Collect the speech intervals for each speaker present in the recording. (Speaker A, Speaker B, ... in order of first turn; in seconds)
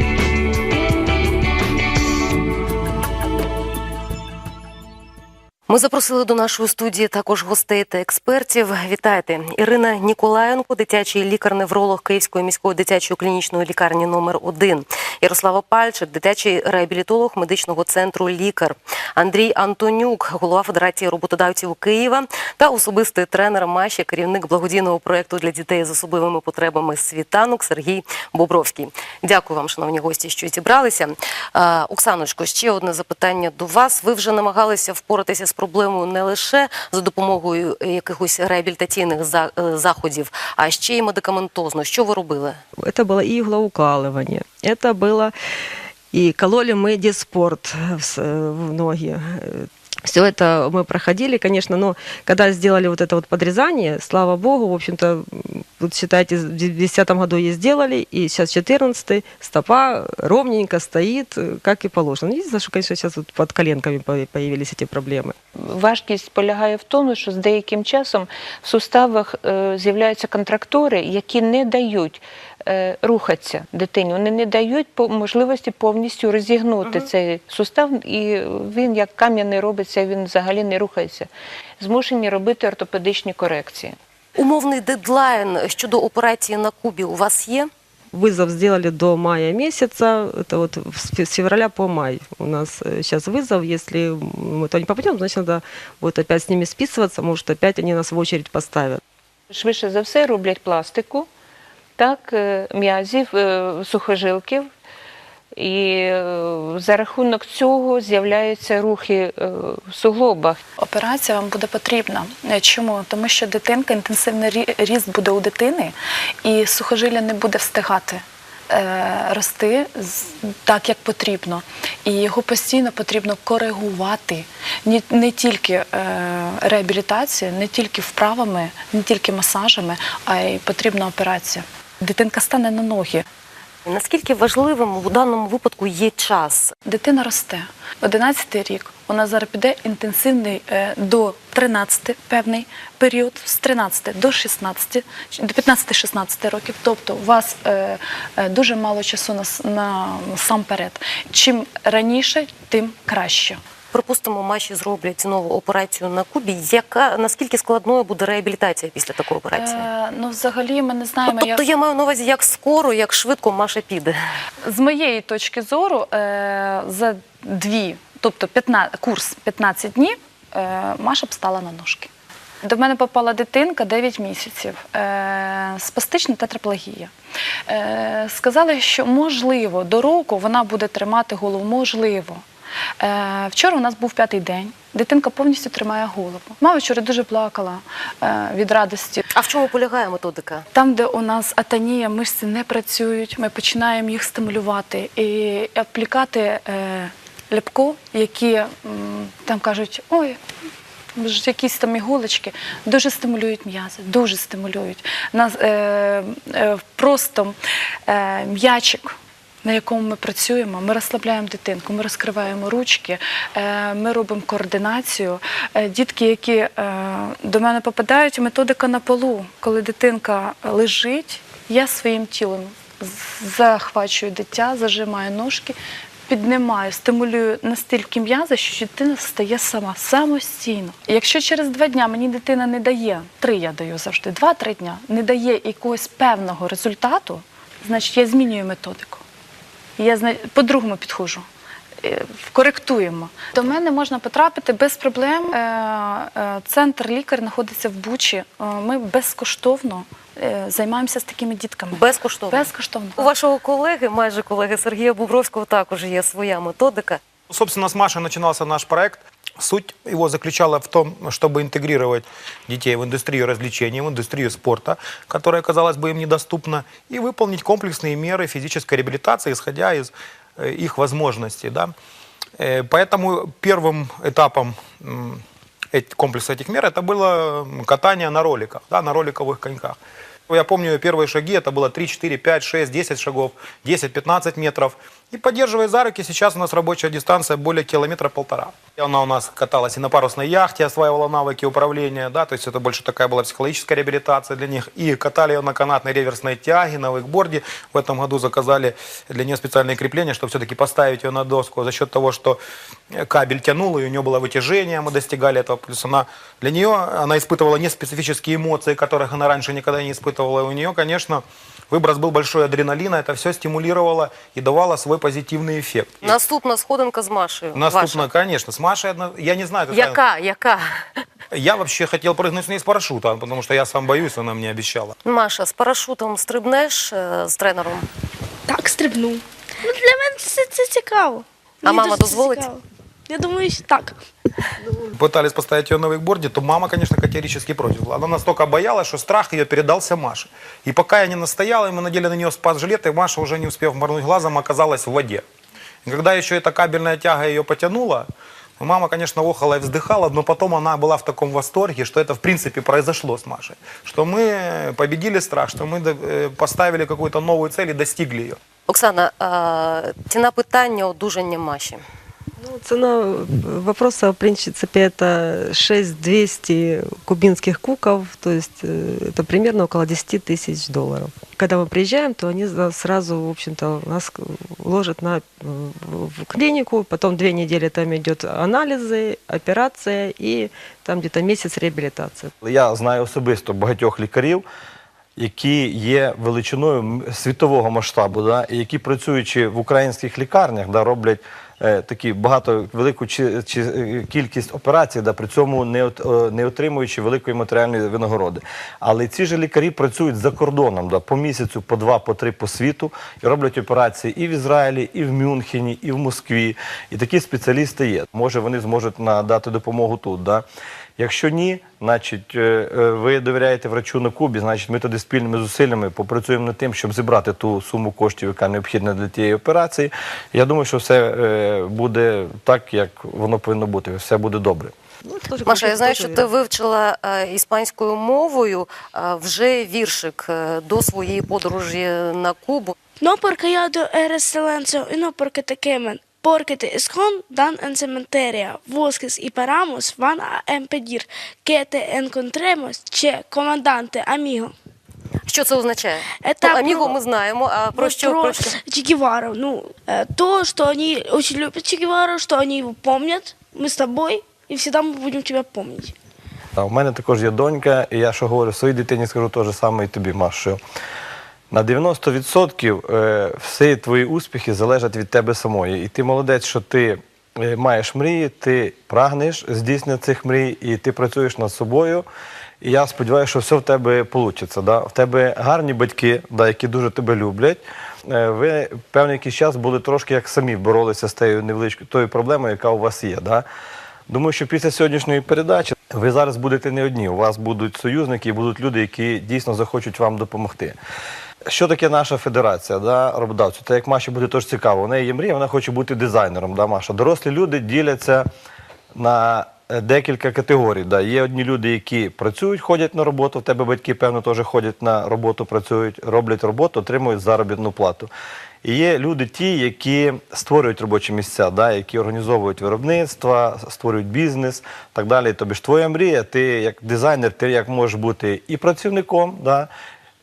Speaker A: 5.7-42.6, 84.3-87.7, 133.8-136.7, 153.9-159.8, 161.3-164.2, 189.3-190.7, 251.9-257.2, 316.2-318.3, 319.9-321.1, 325.2-328.1, 331.8-332.6, 358.9-362.0, 425.6-432.9, 445.4-448.8
Speaker B: 42.8-45.3, 46.1-65.3, 88.1-99.0, 362.6-382.5, 425.2-426.5
Speaker C: 65.5-81.3, 81.8-84.0, 99.5-101.3, 102.0-104.7, 105.5-110.6
Speaker D: 110.8-133.2, 136.8-153.6, 159.5-161.7, 164.7-172.1, 172.6-177.1, 177.7-182.4, 183.0-189.3, 190.7-200.4, 201.2-225.8, 226.3-239.2, 240.0-241.4, 242.0-253.3
Speaker E: 257.5-271.9, 272.6-280.0, 280.5-302.6, 303.1-316.3, 317.7-320.2, 321.5-325.1, 335.2-345.4, 346.0-348.3, 348.8-358.6
Speaker F: 328.7-334.2, 433.2-444.7, 446.4-447.2, 447.9-456.1
Speaker G: 382.6-384.6, 385.4-410.6, 411.2-424.9, 456.8-460.8, 461.7-472.2, 472.8-483.6, 484.3-490.9, 491.7-498.5, 499.1-508.3, 508.8-519.9